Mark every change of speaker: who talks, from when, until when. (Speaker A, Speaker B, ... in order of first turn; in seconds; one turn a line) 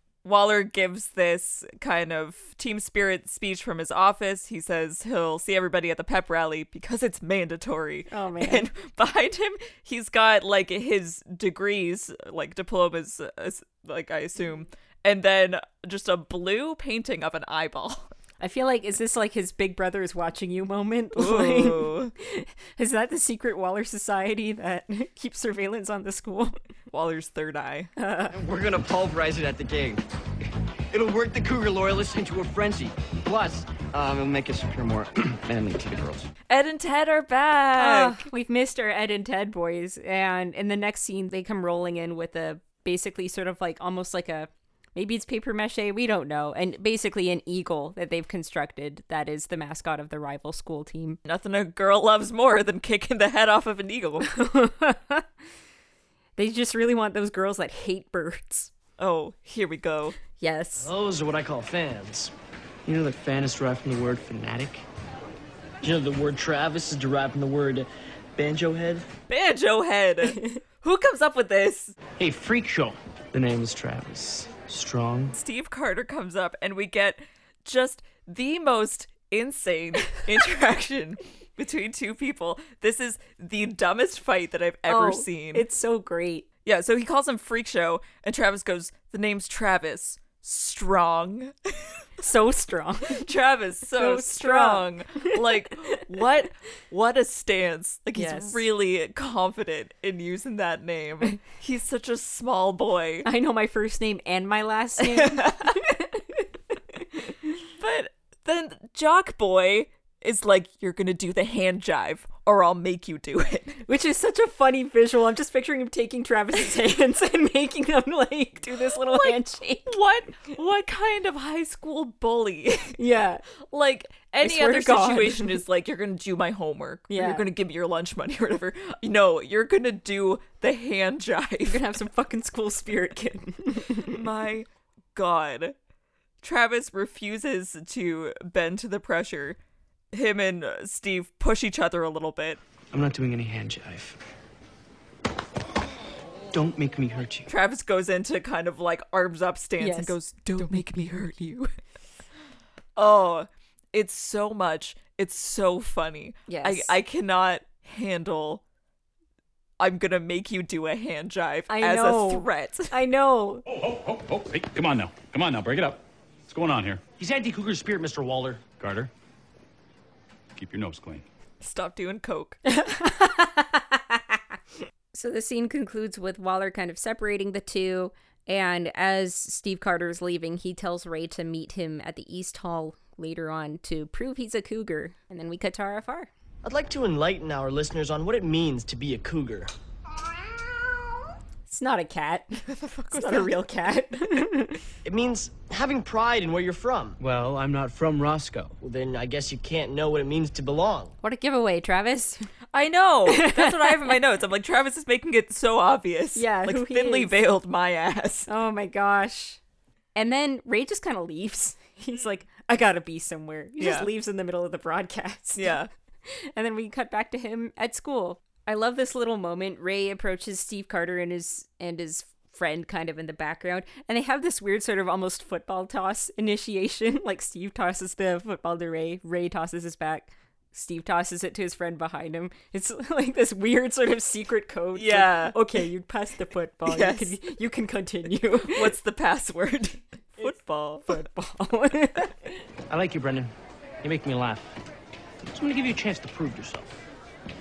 Speaker A: 0.2-18.1
Speaker B: 8.1-8.7
Speaker B: 18.4-26.6
Speaker A: 21.2-22.1
Speaker A: 26.9-27.9
Speaker B: 28.0-28.4
Speaker C: 28.3-30.0
Speaker C: 30.9-33.8
Speaker D: 34.0-36.2
Speaker A: 36.5-38.2
Speaker B: 37.8-51.2
Speaker A: 51.3-54.3
Speaker B: 54.2-55.3
Speaker B: 56.4-58.7
Speaker A: 59.0-60.2
Speaker B: 60.4-60.9
Speaker C: 60.8-62.3
Speaker D: 62.9-64.8
Speaker C: 65.8-69.1
Speaker A: 69.3-72.0
Speaker D: 72.2-75.4
Speaker A: 75.3-85.7
Speaker B: 84.9-86.5
Speaker A: 86.7-91.8
Speaker B: 92.2-93.3
Speaker A: 93.2-103.3
Speaker B: 93.9-95.3
Speaker B: 98.2-98.6
Speaker B: 103.2-106.4
Speaker A: 105.0-105.8
Speaker A: 107.8-113.8
Speaker B: 113.9-119.9
Speaker A: 119.0-123.0
Speaker B: 123.0-123.5
Speaker A: 123.6-132.0
Speaker B: 124.4-125.6
Speaker B: 127.1-127.5
Speaker B: 131.7-134.2
Speaker A: 133.9-135.8
Speaker A: 136.4-139.6
Speaker A: 140.1-142.6
Speaker D: 142.9-144.2
Speaker D: 146.5-147.5
Speaker A: 147.5-151.7
Speaker B: 149.8-151.2
Speaker A: 153.0-158.6
Speaker B: 156.5-156.9
Speaker A: 159.8-163.0
Speaker B: 161.7-163.7
Speaker E: 163.7-167.1
Speaker E: 168.7-169.1
Speaker E: 170.6-171.2
Speaker A: 171.6-172.6
Speaker B: 172.7-174.2
Speaker B: 175.1-186.3
Speaker C: 186.6-189.7
Speaker B: 191.7-194.8
Speaker A: 192.7-193.5
Speaker C: 195.1-197.2
Speaker D: 197.2-198.8
Speaker C: 198.8-201.1
Speaker B: 201.2-202.5
Speaker A: 202.7-208.5
Speaker B: 203.3-204.1
Speaker B: 206.3-207.3
Speaker B: 208.5-209.6
Speaker B: 210.2-215.8
Speaker A: 213.8-214.1
Speaker A: 215.6-215.9
Speaker B: 216.3-238.9
Speaker A: 234.9-235.8
Speaker A: 236.9-237.4
Speaker A: 238.6-241.2
Speaker B: 241.1-242.5
Speaker D: 242.9-243.5
Speaker D: 244.0-244.7
Speaker D: 245.5-246.9